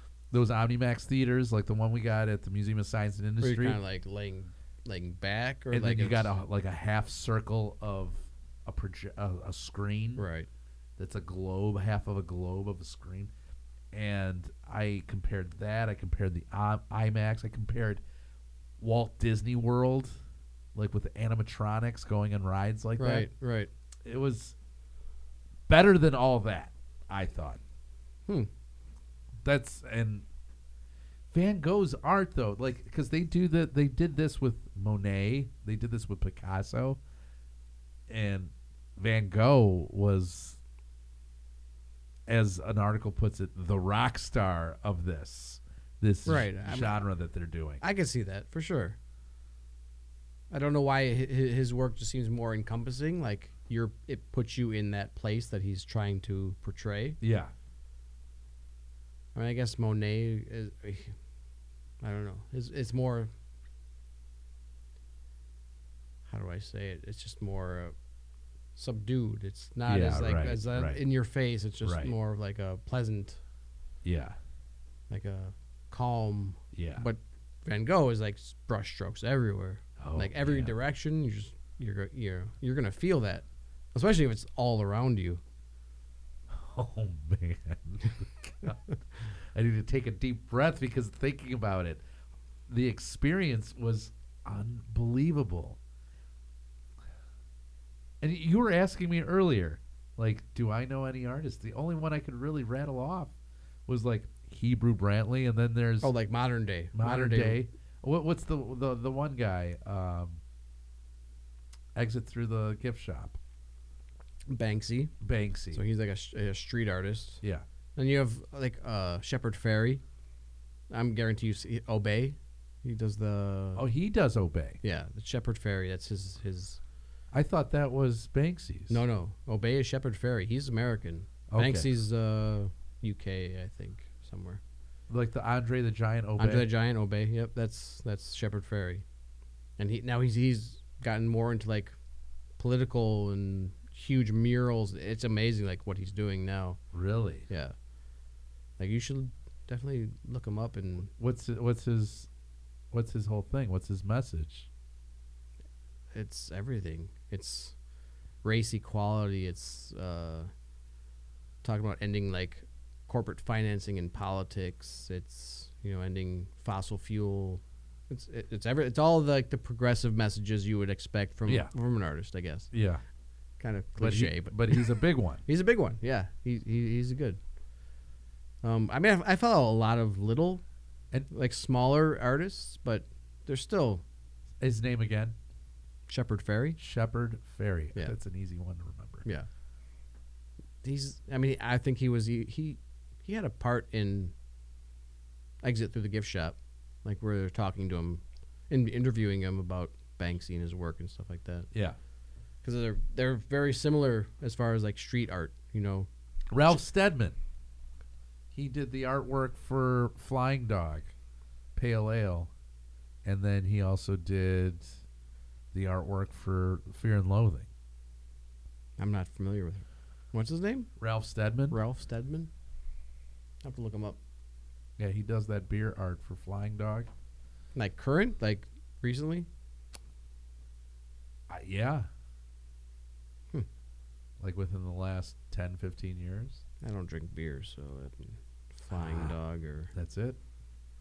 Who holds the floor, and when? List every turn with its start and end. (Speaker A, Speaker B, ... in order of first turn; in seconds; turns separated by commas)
Speaker A: 0.3-3.8, Speaker B: 3.4-6.3, Speaker A: 5.7-10.2, Speaker B: 10.2-10.5, Speaker A: 11.0-13.3, Speaker A: 13.9-18.0, Speaker A: 18.8-20.1, Speaker A: 20.7-23.3, Speaker B: 23.0-23.7, Speaker A: 24.0-24.5, Speaker A: 25.7-27.6, Speaker A: 29.4-30.2, Speaker A: 31.3-37.0, Speaker A: 38.1-40.6, Speaker A: 42.3-47.8, Speaker B: 46.2-47.0, Speaker B: 47.8-49.0, Speaker B: 50.5-57.2, Speaker A: 57.2-57.5, Speaker B: 59.3-61.1, Speaker B: 62.0-63.3, Speaker B: 66.3-67.9, Speaker B: 68.8-73.4, Speaker A: 69.8-71.0, Speaker A: 71.8-72.1, Speaker A: 74.0-74.4, Speaker B: 75.1-85.4, Speaker A: 76.7-77.1, Speaker A: 80.0-80.7, Speaker A: 86.5-92.0, Speaker A: 92.7-95.8, Speaker A: 98.2-103.3, Speaker A: 103.9-106.1, Speaker B: 106.0-107.6, Speaker A: 106.9-110.4, Speaker A: 111.9-113.4, Speaker B: 114.5-115.1, Speaker A: 115.2-115.8, Speaker B: 115.7-117.4, Speaker B: 118.0-120.0, Speaker B: 120.9-123.8, Speaker A: 123.8-124.8, Speaker B: 124.8-126.8, Speaker A: 127.3-129.0, Speaker B: 128.9-134.6, Speaker A: 131.5-131.9, Speaker A: 135.1-136.7, Speaker B: 136.4-139.0, Speaker B: 139.8-141.9, Speaker B: 142.6-146.8, Speaker A: 146.9-147.5, Speaker B: 147.5-147.7, Speaker B: 148.8-151.1, Speaker A: 151.2-152.3, Speaker A: 152.9-154.7, Speaker B: 156.1-157.7, Speaker B: 158.4-160.5, Speaker B: 161.6-172.7, Speaker A: 171.4-171.7, Speaker A: 172.7-173.0, Speaker B: 173.6-177.4, Speaker A: 174.0-175.4, Speaker B: 178.6-180.6, Speaker B: 181.3-184.0, Speaker A: 184.6-185.3, Speaker B: 186.1-186.8, Speaker A: 186.8-189.2, Speaker B: 190.8-194.3, Speaker B: 195.6-201.7, Speaker B: 202.6-206.1, Speaker A: 206.5-207.4, Speaker A: 208.5-211.1, Speaker A: 211.7-212.5, Speaker A: 213.2-214.9, Speaker A: 215.7-217.7, Speaker B: 219.0-220.9, Speaker A: 221.0-221.8, Speaker B: 221.7-222.5, Speaker B: 223.6-224.2, Speaker A: 225.0-227.1, Speaker B: 227.7-229.5, Speaker A: 231.5-232.1, Speaker A: 234.4-236.6, Speaker B: 236.8-239.9, Speaker A: 238.9-239.4, Speaker A: 239.9-240.4